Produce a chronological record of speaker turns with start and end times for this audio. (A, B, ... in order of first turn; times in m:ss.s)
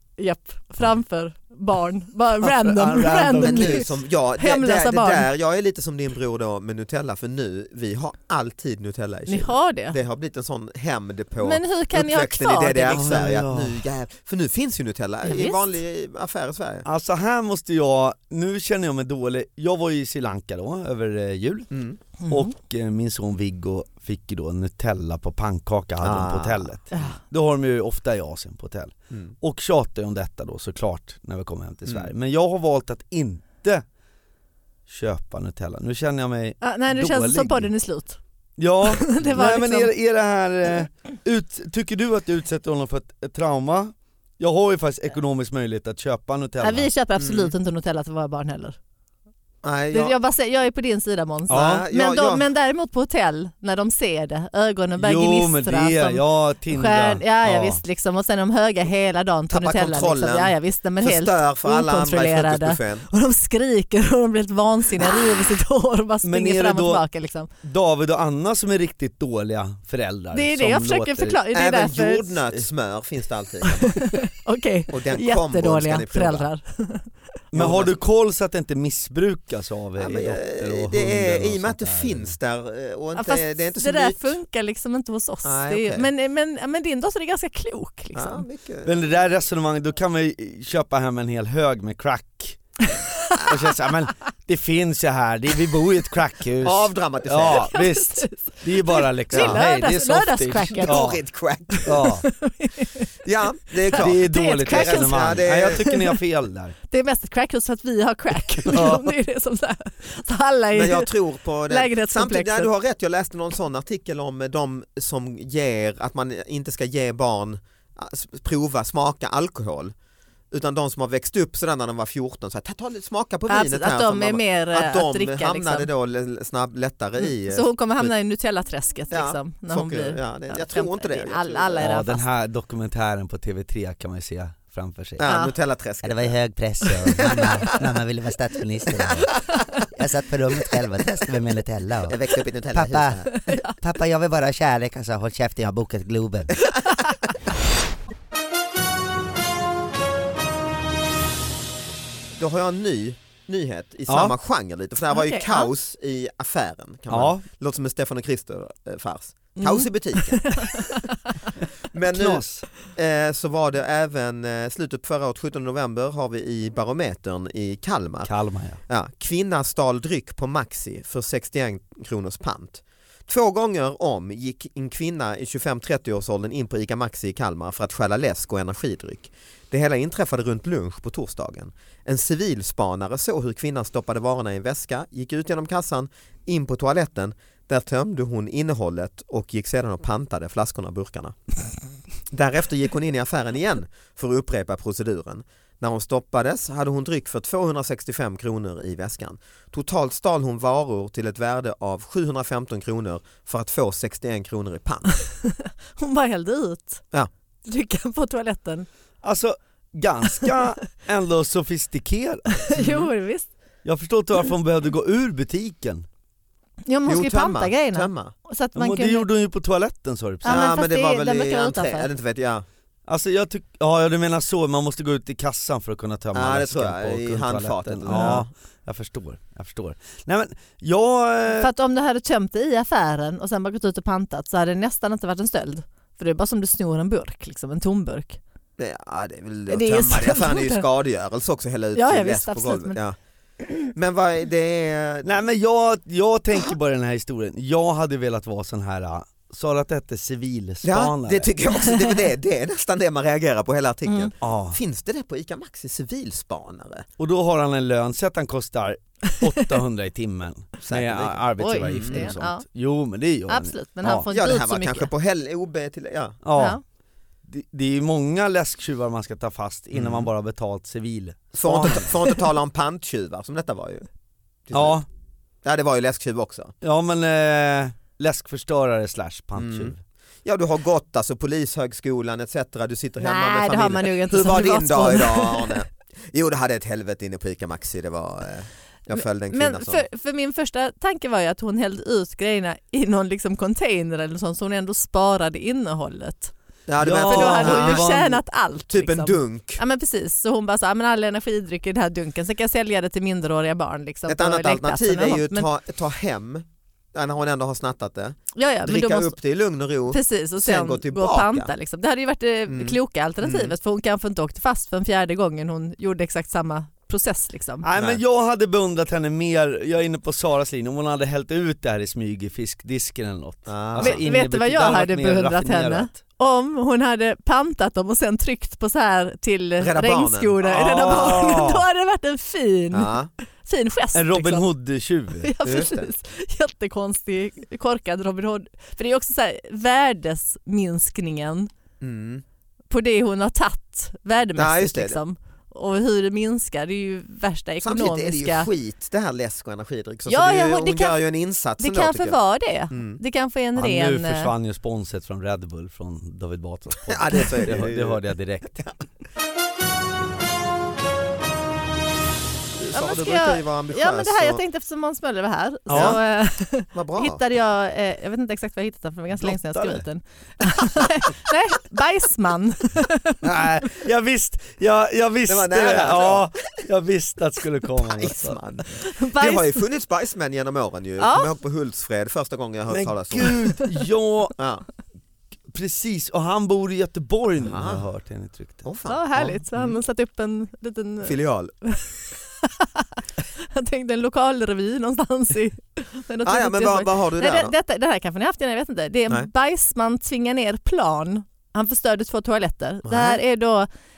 0:00.2-0:05.3 A
0:02.4-0:03.8 B
0:03.4-0:16.8 C
0:09.3-0:10.0 A
0:11.4-0:13.2 A
0:12.9-0:13.8 B
0:15.2-0:15.6 A
0:16.8-0:21.7 B
0:21.7-0:22.0 C
0:22.2-0:22.5 A
0:22.3-0:33.8 B
0:26.0-0:26.7 C
0:26.9-0:27.2 A
0:34.9-0:37.7 B
0:36.6-0:38.2 A
0:38.6-0:46.9 B
0:38.9-0:39.9 A
0:46.6-0:48.8 A
0:47.2-0:47.5 C
0:49.6-0:50.1 C
0:49.9-1:07.5 A
0:51.5-0:51.8 B
0:51.5-0:52.4 C
0:55.0-0:57.8 B
0:59.5-1:03.1 C
1:06.2-1:07.0 B
1:07.6-1:11.4 B
1:10.3-1:12.5 A
1:11.5-1:14.0 C
1:13.6-1:17.1 A
1:14.9-1:16.5 C
1:17.5-1:22.3 B
1:17.5-1:17.9 C
1:20.0-1:24.4 C
1:23.1-1:28.4 A
1:25.4-1:26.1 C
1:28.1-1:29.0 C
1:28.8-1:32.6 B
1:32.8-1:33.7 A
1:33.4-1:41.2 B
1:36.6-1:37.7 C
1:37.5-1:41.1 A
1:39.3-1:39.6 C
1:40.8-1:42.1 C
1:41.7-1:43.1 A
1:41.8-1:42.2 B
1:43.2-1:45.8 C
1:43.8-1:46.2 A
1:43.9-1:46.8 B
1:46.9-1:51.1 A
1:48.6-1:49.1 B
1:50.7-1:59.9 C
1:51.7-1:52.7 A
2:00.5-2:08.1 C
2:03.5-2:05.9 A
2:07.2-2:12.2 A
2:09.1-2:11.9 C
2:11.8-2:15.2 B
2:15.2-2:16.3 C
2:15.2-2:15.5 A
2:16.0-2:22.2 D
2:18.9-2:19.5 C
2:22.1-2:23.3 C
2:22.7-2:23.3 D
2:23.4-2:23.8 A
2:23.8-2:26.6 D
2:32.3-2:41.0 C
2:34.1-2:34.4 B
2:35.1-2:35.7 A
2:37.1-2:37.4 B
2:39.6-2:41.3 A
2:41.9-2:48.3 C
2:42.1-2:42.7 B
2:48.2-2:48.8 B
2:48.9-3:11.4 C
3:12.3-3:25.1 C
3:25.2-3:27.0 A
3:27.6-3:28.9 A
3:29.2-3:32.7 B
3:32.6-3:33.5 A
3:32.8-3:33.1 C
3:33.8-3:36.0 B
3:36.8-3:39.3 A
3:37.1-3:38.3 C
3:38.7-3:40.6 B
3:40.4-3:42.1 A
3:40.4-3:42.6 C
3:43.1-3:51.7 B
3:46.3-3:48.5 C
3:48.1-3:48.4 A
3:51.5-3:58.4 A
3:58.8-4:03.2 C
3:59.7-4:00.8 A
4:01.9-4:03.0 A
4:03.8-4:05.4 C
4:05.2-4:11.5 B
4:10.8-4:17.0 C
4:14.0-4:14.3 A
4:14.4-4:14.8 B
4:17.2-4:24.2 B
4:20.8-4:22.3 C
4:21.6-4:22.6 A
4:23.5-4:25.1 A
4:24.3-4:26.4 C
4:26.4-4:26.8 B
4:26.6-4:26.8 A
4:27.5-4:32.1 B
4:29.9-4:30.3 C
4:31.5-4:34.0 C
4:34.7-4:35.0 C
4:34.7-4:35.0 B
4:35.6-4:36.7 C
4:36.8-4:40.0 B
4:39.6-4:50.0 C
4:43.2-4:45.8 A
4:49.2-4:56.5 A
4:56.9-4:58.0 C
4:57.0-4:58.4 B
4:57.2-5:05.7 A
4:58.9-4:59.8 C
5:04.3-5:11.7 C
5:08.5-5:09.3 A
5:10.1-5:17.8 A
5:12.7-5:13.7 C
5:17.8-5:26.2 B
5:23.7-5:24.2 C
5:24.0-5:34.7 A
5:29.8-5:31.6 C
5:30.6-5:31.8 B
5:32.9-5:33.3 C
5:34.1-5:35.5 B
5:35.4-5:41.7 A
5:35.6-5:36.1 C
5:42.0-5:42.4 C
5:42.9-5:48.7 A
5:44.6-5:45.2 C
5:47.8-5:52.4 C
5:50.3-5:51.2 A
5:51.8-5:54.5 A
5:52.9-5:53.2 C
5:53.8-5:58.9 B
5:57.1-5:58.2 C
6:02.7-6:04.6 C
6:02.9-6:13.4 A
6:05.9-6:06.2 B
6:05.9-6:06.2 C
6:06.9-6:07.4 C
6:09.4-6:10.0 B
6:13.4-6:18.6 B
6:15.5-6:16.5 C
6:18.0-6:23.6 C
6:19.0-6:19.8 A
6:21.2-6:21.5 A
6:22.9-6:24.5 B
6:24.6-6:24.8 C
6:25.7-6:28.8 B
6:27.6-6:28.0 C
6:28.8-6:30.0 C
6:29.0-6:43.9 A
6:31.2-6:31.7 C
6:36.4-6:37.7 C
6:43.0-6:43.4 C